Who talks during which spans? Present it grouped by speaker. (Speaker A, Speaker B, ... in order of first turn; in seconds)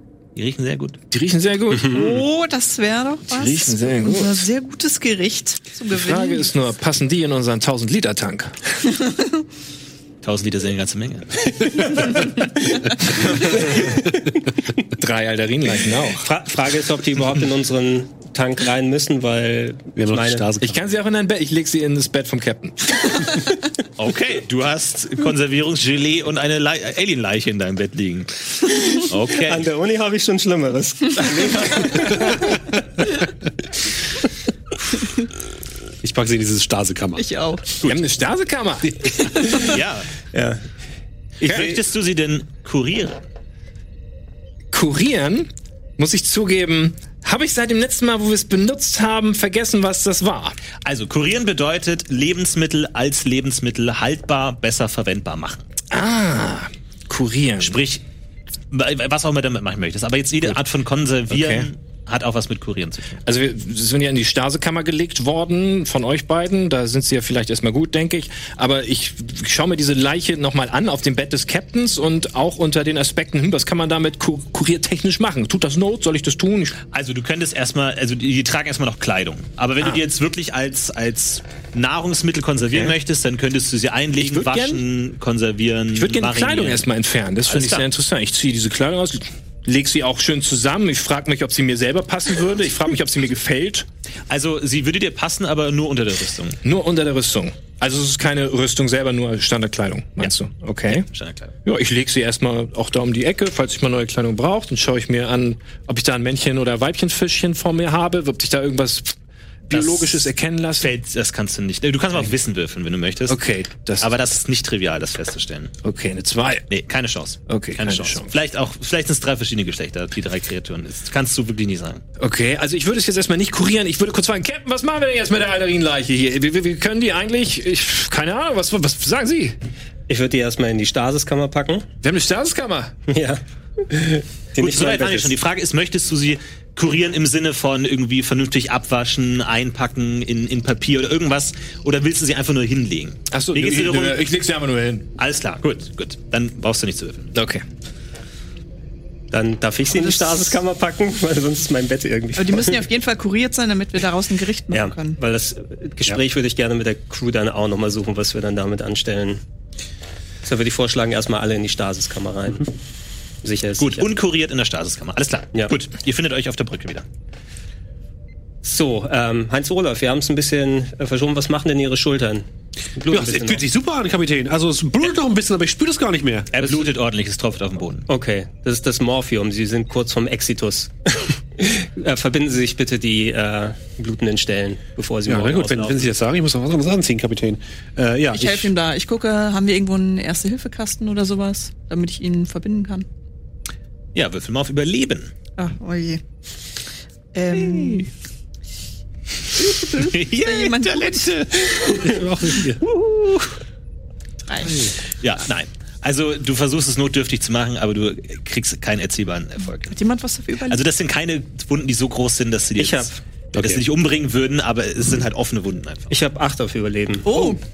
Speaker A: 0.3-1.0, 10.2-11.5, 24.0-29.7, 39.5-40.1, 41.4-43.2, 50.8-55.6, 57.6-58.0, 58.7-63.2, 76.9-86.9, 87.5-87.9, 94.3-96.6, 100.9-101.5, 109.7-110.2, 110.8-113.4, 114.0-115.7, 116.7-122.0, 134.6-144.3, 145.2-147.3, 163.8-167.1, 176.5-178.1, 194.2-195.3, 197.5-198.1, 199.8-202.1, 202.8-203.6, 205.2-210.0, 210.7-216.1
Speaker B: 1.1-2.0, 3.3-4.5, 5.9-8.6, 15.0-16.3, 20.6-23.0, 37.8-39.3, 44.7-50.6, 55.9-57.8, 61.3-61.7, 63.2-76.8, 84.2-84.8, 85.9-93.9, 96.6-101.1, 101.7-109.2, 109.7-110.9, 113.3-114.1, 115.8-116.7, 117.5-118.3, 122.2-129.6, 132.0-132.9, 143.3-145.1, 147.3-147.6
Speaker C: 1.8-2.1, 12.7-14.0, 16.2-20.5, 29.4-32.6, 40.3-40.6, 41.4-41.8, 130.1-131.9, 133.1-135.4, 149.3-152.8, 154.7-159.4, 160.4-162.7, 163.4-164.1, 168.6-173.7, 178.1-186.1, 212.8-213.2, 216.1-217.5
Speaker D: 1.9-6.5, 37.2-37.6, 149.9-150.5, 152.4-155.2, 188.3-193.1, 195.6-196.2, 197.3-198.1, 199.8-201.3, 204.5-204.8, 209.9-210.8, 217.2-217.6
Speaker E: 20.0-20.8, 36.0-37.3, 173.1-176.6, 185.3-188.7, 202.0-202.8, 204.6-204.9, 213.6-213.8